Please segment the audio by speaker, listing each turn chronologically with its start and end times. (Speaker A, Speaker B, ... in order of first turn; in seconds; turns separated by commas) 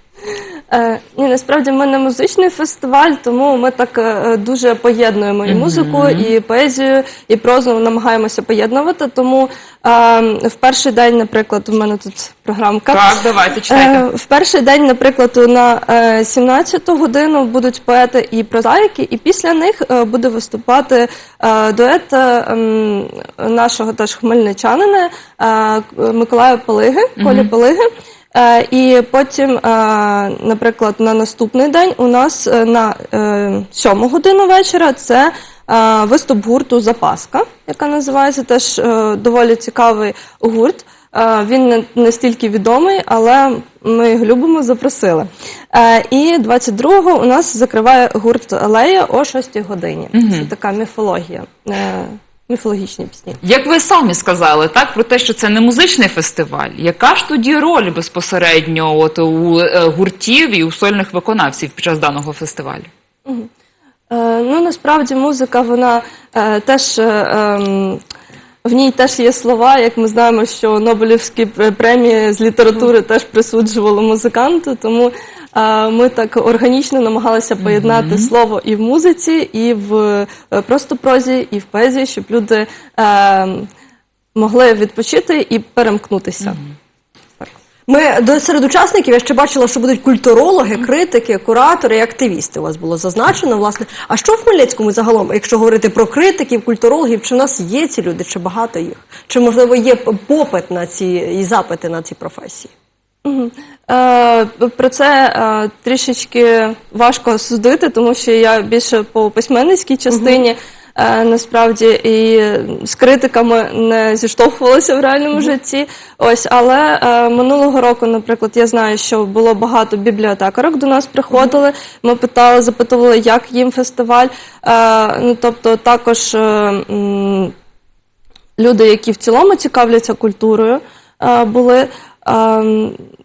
Speaker A: 0.7-13.2, Speaker B: 5.5-6.3, Speaker B: 12.9-14.1, Speaker A: 13.7-53.4, Speaker B: 27.2-27.5, Speaker B: 50.1-50.5, Speaker B: 53.4-62.9, Speaker A: 64.1-68.0, Speaker A: 68.7-83.7, Speaker B: 77.6-78.3, Speaker A: 84.4-86.6, Speaker C: 87.9-102.7, Speaker A: 103.2-127.5, Speaker C: 110.1-110.4, Speaker A: 128.6-133.0